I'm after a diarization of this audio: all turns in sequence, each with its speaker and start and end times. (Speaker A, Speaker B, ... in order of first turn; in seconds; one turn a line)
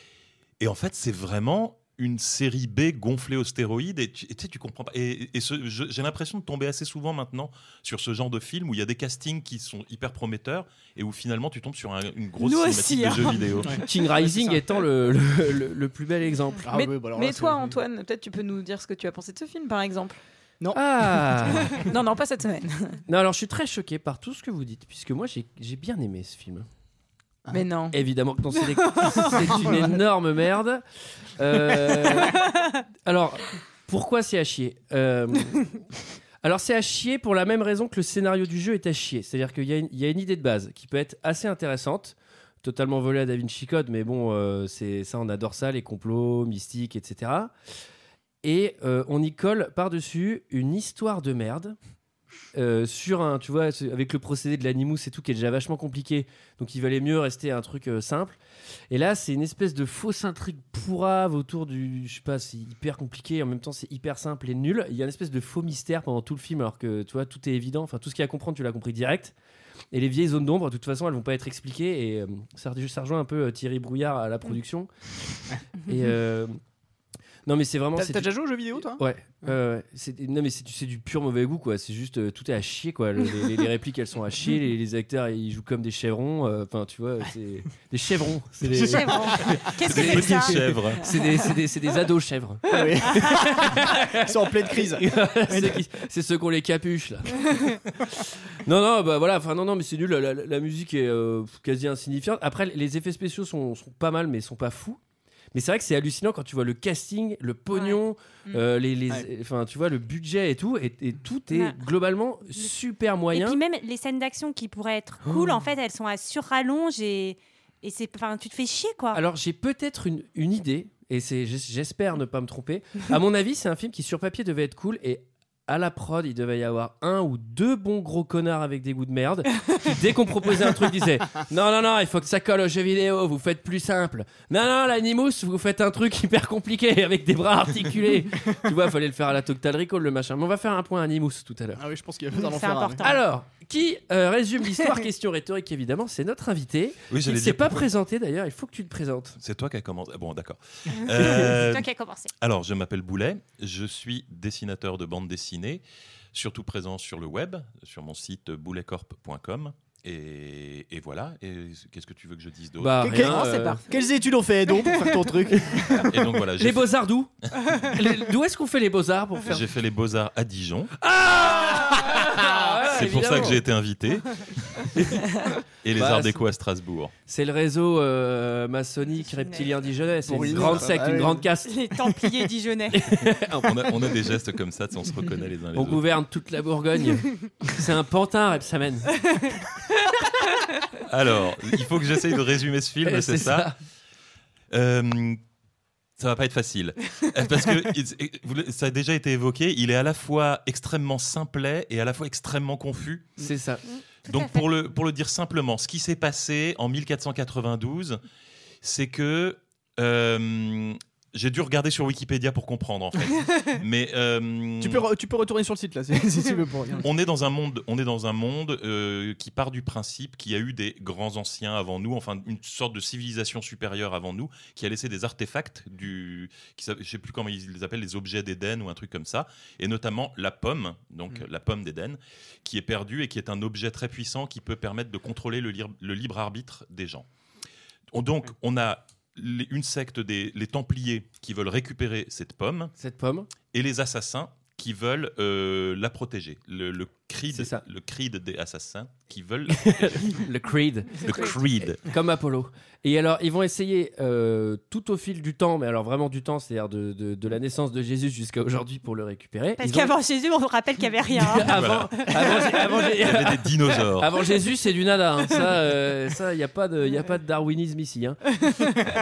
Speaker A: 0.6-13.8
Speaker B: 12.4-13.5
Speaker C: 13.6-14.8
Speaker D: 13.8-16.7
Speaker C: 16.6-17.7
Speaker E: 16.7-20.2
Speaker C: 20.6-21.9
Speaker D: 20.7-21.8
Speaker E: 21.8-23.0
Speaker D: 23.1-26.7
Speaker E: 27.5-28.0
Speaker D: 27.9-30.8
Speaker C: 29.3-30.0
Speaker D: 31.4-32.4
Speaker C: 31.7-32.0
Speaker D: 33.0-35.7
Speaker D: 36.4-47.5
Speaker D: 48.4-51.8
Speaker D: 52.5-58.4
Speaker D: 58.9-69.3
Speaker D: 69.9-74.9
Speaker D: 75.9-76.6
Speaker D: 77.5-78.3
Speaker C: 78.0-79.0
Speaker D: 78.9-105.0
Speaker C: 88.7-89.6
Speaker B: 88.8-90.5
Speaker A: 89.8-91.1
Speaker C: 92.7-95.8
Speaker D: 105.5-113.6
Speaker B: 107.7-108.0
Speaker B: 111.5-111.8
Speaker B: 113.3-119.2
Speaker D: 115.2-115.5
Speaker D: 119.1-141.8
Speaker C: 141.8-143.1
Speaker B: 142.3-143.2
Speaker D: 143.0-149.4
Speaker A: 147.1-147.8
Speaker A: 149.4-151.9
Speaker B: 150.9-152.3
Speaker A: 152.4-163.2
Speaker D: 162.8-163.8
Speaker C: 163.0-166.0
Speaker E: 163.2-164.0
Speaker D: 165.5-167.3
Speaker A: 165.9-166.9
Speaker D: 167.8-169.6
Speaker A: 169.4-170.9
Speaker D: 171.0-173.6
Speaker A: 172.8-174.4
Speaker D: 174.9-175.3
Speaker A: 175.8-177.1
Speaker D: 175.9-176.4
Speaker D: 177.3-181.8
Speaker B: 179.2-179.7
Speaker C: 180.2-181.5
Speaker B: 181.7-183.1
Speaker D: 182.9-184.1
Speaker A: 183.4-186.1
Speaker D: 185.7-189.2
Speaker D: 190.0-190.3
Speaker A: 191.0-193.7
Speaker D: 193.0-193.7
Speaker A: 194.7-195.4
Speaker A: 196.2-203.4
Speaker D: 203.4-203.8
Speaker B: 203.9-204.6
Speaker A: 204.3-208.2
Speaker A: 208.8-215.1
Speaker C: 214.8-217.1
Speaker A: 217.0-237.3
Speaker A: 238.1-242.9
Speaker D: 243.0-243.5
Speaker A: 243.7-250.3
Speaker D: 247.5-247.8
Speaker D: 249.7-251.3
Speaker A: 251.2-252.0
Speaker B: 251.3-251.5
Speaker D: 251.9-260.1
Speaker B: 259.8-262.6
Speaker D: 261.3-268.6
Speaker A: 261.6-264.5